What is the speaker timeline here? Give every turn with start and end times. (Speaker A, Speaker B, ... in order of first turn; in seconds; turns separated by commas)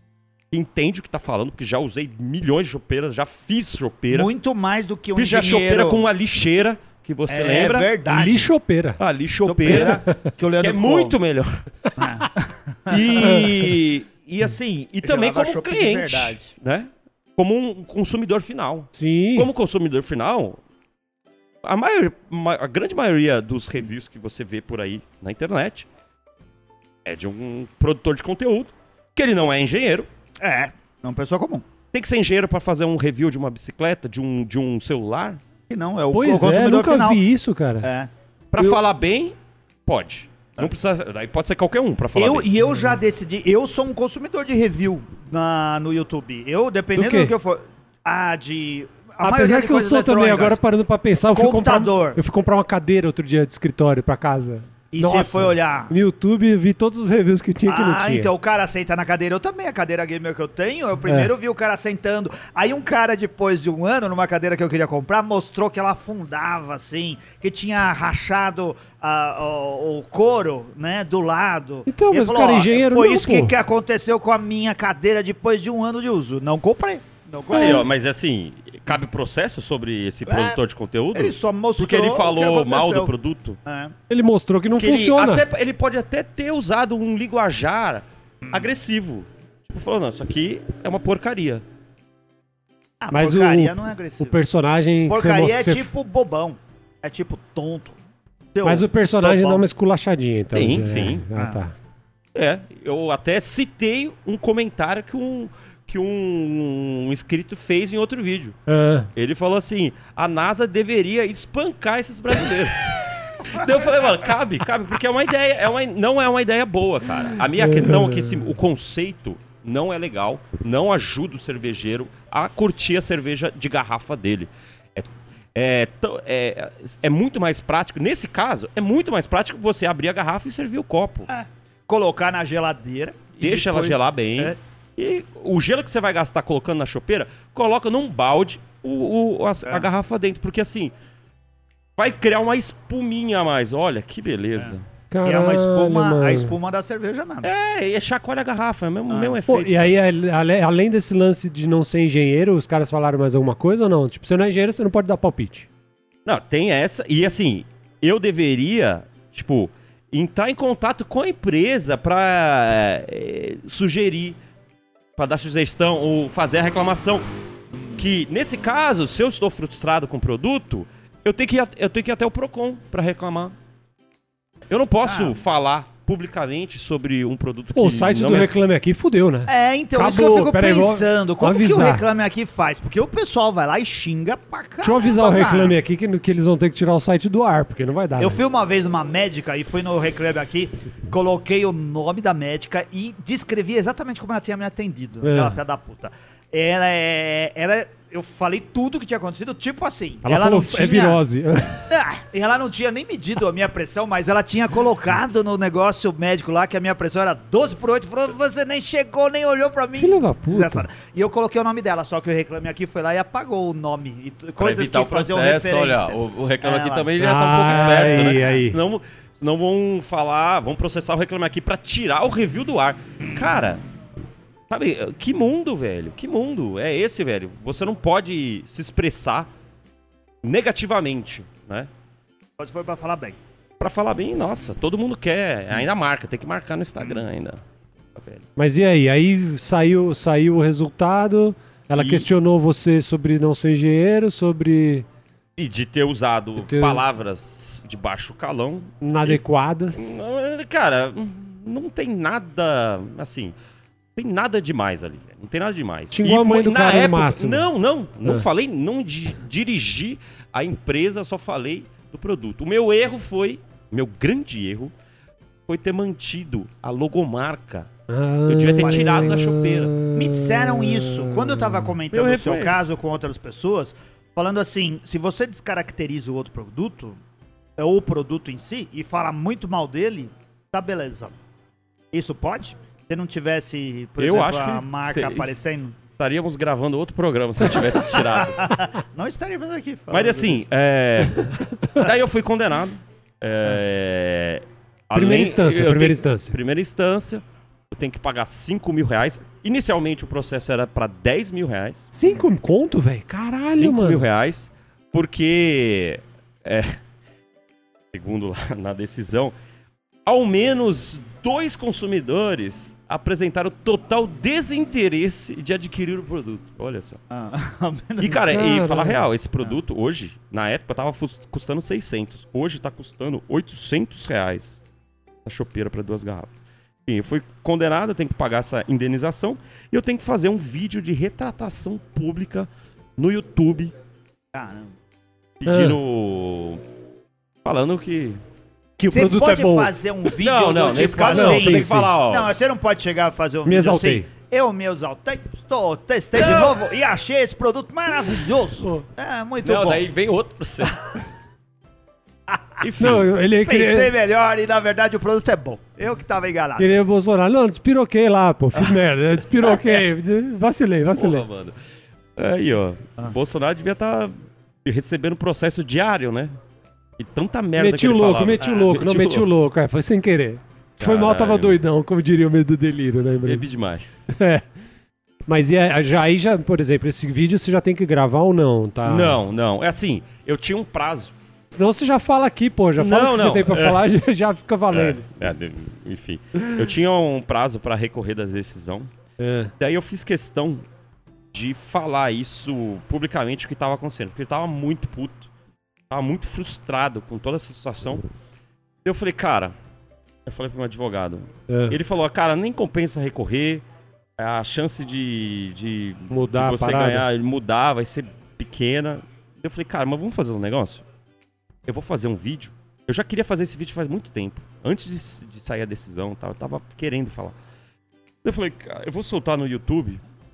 Speaker A: 0.5-4.3, Speaker B: 4.1-6.0, Speaker A: 5.2-7.9, Speaker B: 7.3-8.5, Speaker C: 8.1-9.0, Speaker A: 9.0-10.0, Speaker B: 9.5-11.2, Speaker C: 9.7-10.3, Speaker A: 10.6-11.7, Speaker B: 12.0-13.5, Speaker A: 12.9-20.6, Speaker B: 15.0-16.5, Speaker C: 18.9-19.5, Speaker A: 21.6-25.9, Speaker A: 27.1-30.1, Speaker B: 30.4-31.6, Speaker A: 31.9-35.4, Speaker B: 35.7-37.2, Speaker C: 36.1-37.9, Speaker B: 37.8-38.8, Speaker A: 38.5-39.4, Speaker A: 39.9-42.5, Speaker B: 42.1-50.6, Speaker C: 47.0-47.3, Speaker C: 49.2-58.3, Speaker B: 51.3-52.2, Speaker B: 54.9-55.9, Speaker B: 57.7-77.9, Speaker C: 61.1-61.3, Speaker C: 71.9-73.5, Speaker A: 77.5-83.6, Speaker C: 77.5-77.8, Speaker B: 80.3-80.6, Speaker B: 81.1-83.1, Speaker B: 83.7-83.9, Speaker C: 84.1-85.5, Speaker A: 84.8-91.6, Speaker B: 88.4-88.7, Speaker B: 93.0-94.4, Speaker C: 93.1-95.9, Speaker B: 95.1-98.0, Speaker B: 98.5-99.6, Speaker C: 98.6-101.8, Speaker A: 100.5-101.3, Speaker B: 101.3-101.6, Speaker A: 102.3-108.6, Speaker C: 108.7-109.1, Speaker A: 109.2-131.3, Speaker C: 117.5-118.4, Speaker B: 131.3-134.6, Speaker A: 133.4-140.9, Speaker A: 142.0-144.8, Speaker B: 144.6-147.5, Speaker C: 145.1-146.6, Speaker A: 147.4-149.9, Speaker B: 149.1-149.4, Speaker C: 149.5-155.7, Speaker A: 156.2-164.4, Speaker A: 165.2-167.2, Speaker B: 167.7-168.0, Speaker A: 168.0-173.5, Speaker A: 174.7-178.5, Speaker B: 175.1-175.4, Speaker C: 177.7-182.0, Speaker B: 179.5-185.8, Speaker C: 184.8-188.4, Speaker B: 188.2-201.2, Speaker C: 195.2-195.6, Speaker C: 200.2-201.9, Speaker B: 201.9-217.1, Speaker C: 210.0-210.9, Speaker A: 214.6-223.8, Speaker C: 217.2-218.8, Speaker B: 217.7-218.6, Speaker A: 224.7-229.5, Speaker A: 230.4-231.9, Speaker B: 232.6-233.4, Speaker A: 233.8-237.6, Speaker A: 238.2-238.4, Speaker C: 238.6-245.1, Speaker A: 242.0-242.3, Speaker A: 245.6-249.4, Speaker C: 246.6-247.0, Speaker C: 249.0-250.2, Speaker A: 249.9-253.6, Speaker A: 254.2-264.9, Speaker C: 256.1-257.7, Speaker A: 265.7-267.9, Speaker C: 268.1-271.9, Speaker A: 268.5-270.0, Speaker B: 268.8-269.4, Speaker B: 270.1-277.2, Speaker A: 272.1-272.9, Speaker B: 277.8-281.4, Speaker B: 282.1-286.0, Speaker A: 284.2-285.5, Speaker A: 286.2-288.8, Speaker B: 287.7-290.6, Speaker A: 290.1-302.1, Speaker C: 295.1-296.6, Speaker C: 302.1-304.2, Speaker A: 303.7-307.0, Speaker A: 308.1-309.5, Speaker A: 310.3-317.2, Speaker B: 317.3-318.4, Speaker A: 318.2-324.8, Speaker C: 318.5-319.3, Speaker A: 325.4-326.5, Speaker A: 327.1-333.9, Speaker B: 334.5-334.9, Speaker A: 335.6-336.8, Speaker C: 335.7-336.0, Speaker A: 337.6-338.4, Speaker C: 339.0-339.9, Speaker B: 339.1-350.1, Speaker A: 340.4-342.5, Speaker C: 341.2-342.1, Speaker C: 343.6-344.3, Speaker A: 346.3-346.8, Speaker A: 349.6-351.1, Speaker B: 352.5-352.8, Speaker A: 352.8-353.3, Speaker C: 353.0-354.1, Speaker B: 353.6-356.9, Speaker C: 356.8-361.5, Speaker A: 361.2-361.8, Speaker A: 362.4-366.5, Speaker A: 367.2-369.5, Speaker C: 367.8-373.6, Speaker B: 368.6-368.9, Speaker A: 371.0-371.8, Speaker A: 373.4-374.3, Speaker C: 374.3-374.6, Speaker C: 375.5-379.4, Speaker A: 379.1-381.3, Speaker C: 381.7-385.3, Speaker A: 383.0-384.0, Speaker A: 384.9-389.1, Speaker C: 389.4-389.7, Speaker A: 389.8-390.8, Speaker A: 391.5-395.5, Speaker A: 396.1-398.2, Speaker A: 399.1-399.7, Speaker A: 400.5-403.8, Speaker C: 401.7-402.0, Speaker A: 404.4-411.0, Speaker C: 406.3-407.2, Speaker A: 411.9-417.6, Speaker A: 418.4-420.2